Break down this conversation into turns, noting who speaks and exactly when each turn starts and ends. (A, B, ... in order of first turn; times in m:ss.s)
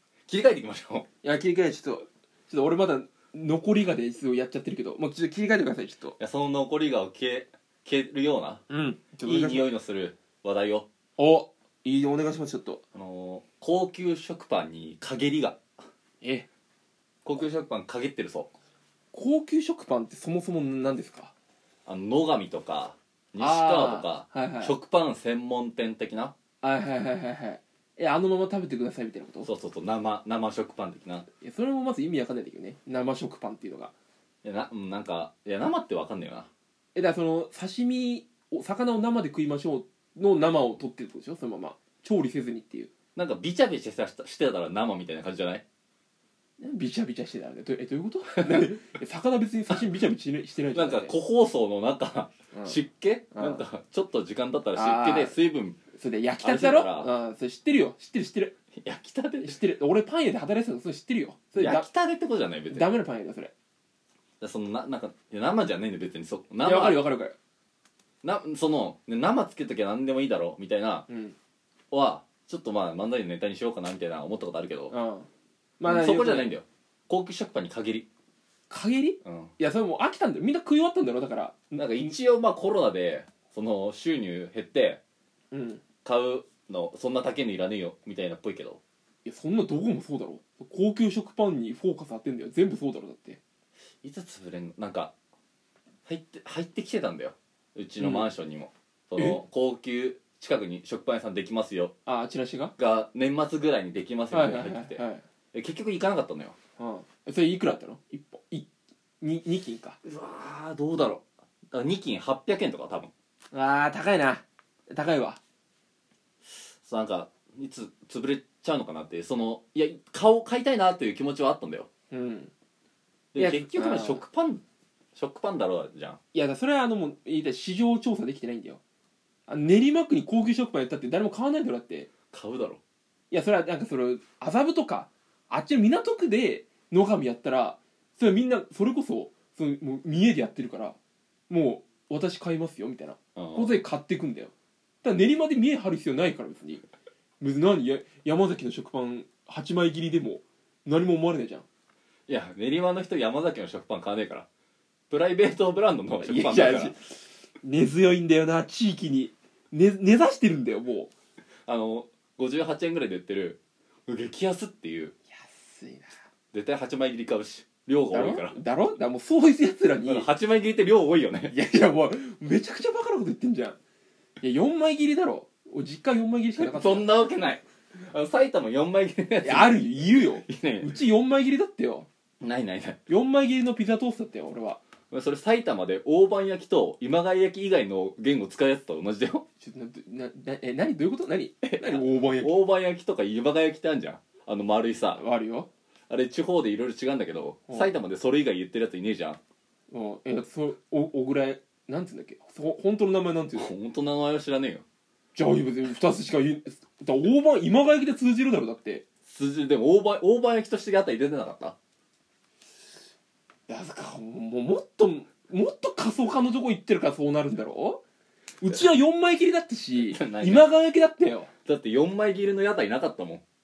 0:00.3-0:01.1 A
0:01.2-0:06.2 B
0:06.2-0:08.6 A
0:08.7-0:09.7 B
0:09.2-0:10.9 A
0:11.2-0:12.8 B
0:12.9-0:15.6 A
0:16.2-0:16.5 B
0:17.2-0:18.5 A
0:19.1-0:21.3 B
0:21.9-0:26.3 A
0:23.4-0:24.8 B
0:26.6-0:29.5 B
0:29.4-0:31.3 A
0:31.4-0:33.9 B
0:34.4-0:36.5 A
0:37.0-0:42.9 B
0:43.2-0:45.6 A
0:46.6-0:51.2 B
0:48.4-0:48.7 A
0:50.7-0:55.8 A
0:52.5-0:52.8 B
0:53.3-0:53.6 B
0:54.8-0:55.4 B
0:56.0-0:58.6 B
0:56.4-0:57.1 A
0:58.8-0:59.6 A
0:59.4-1:01.9 B
1:01.6-1:02.9 A
1:02.7-1:03.5 B
1:04.4-1:07.1 A
1:06.6-1:07.4 B
1:08.2-1:11.1 A
1:11.1-1:11.4 B
1:11.9-1:15.0 A
1:14.9-1:16.5 B
1:15.9-1:18.1 A
1:18.7-1:22.1 B
1:19.2-1:19.5 A
1:21.8-1:25.0 A
1:25.5-1:25.8 B
1:26.0-1:28.8 A
1:29.2-1:33.4 B
1:34.0-1:35.1 A
1:36.1-1:41.9 A
1:38.0-1:38.3 B
1:39.2-1:39.4 B
1:42.1-1:42.7 B
1:42.8-1:45.0 A
1:44.3-1:45.2 B
1:45.5-1:46.6 A
1:46.8-1:48.7 B
1:49.2-1:50.0 B
1:50.0-1:53.1 A
1:53.5-1:55.4 B
1:56.8-2:01.9 A
2:02.1-2:02.5 B
2:03.3-2:04.6 A
2:03.4-2:04.2 B
2:05.2-2:06.2 A
2:06.3-2:08.8 B
2:09.5-2:12.1 B
2:12.3-2:12.8 A
2:13.3-2:21.0 B
2:21.5-2:24.5 B
2:23.4-2:23.8 A
2:25.0-2:26.8 B
2:27.4-2:31.7 B
2:32.3-2:34.5 A
2:35.1-2:37.0 A
2:36.2-2:41.1 B
2:41.7-2:45.1 A
2:45.3-2:46.1 B
2:46.5-2:48.6 A
2:48.1-2:50.3 B
2:50.0-2:51.5 A
2:51.5-2:53.8 B
2:54.4-2:57.2 B
2:56.6-3:01.0 A
2:59.4-3:02.1 B
3:02.4-3:03.0 A
3:03.1-3:04.8 B
3:05.1-3:09.5 A
3:09.6-3:12.6 B
3:11.6-3:15.2 A
3:15.2-3:15.7 B
3:16.1-3:19.4 A
3:19.9-3:23.7 B
3:23.5-3:24.8 A
3:25.4-3:29.0 B
3:29.3-3:31.8 A
3:33.7-3:38.0 B
3:38.6-3:41.5 B
3:40.0-3:40.7 A
3:41.6-3:43.4 A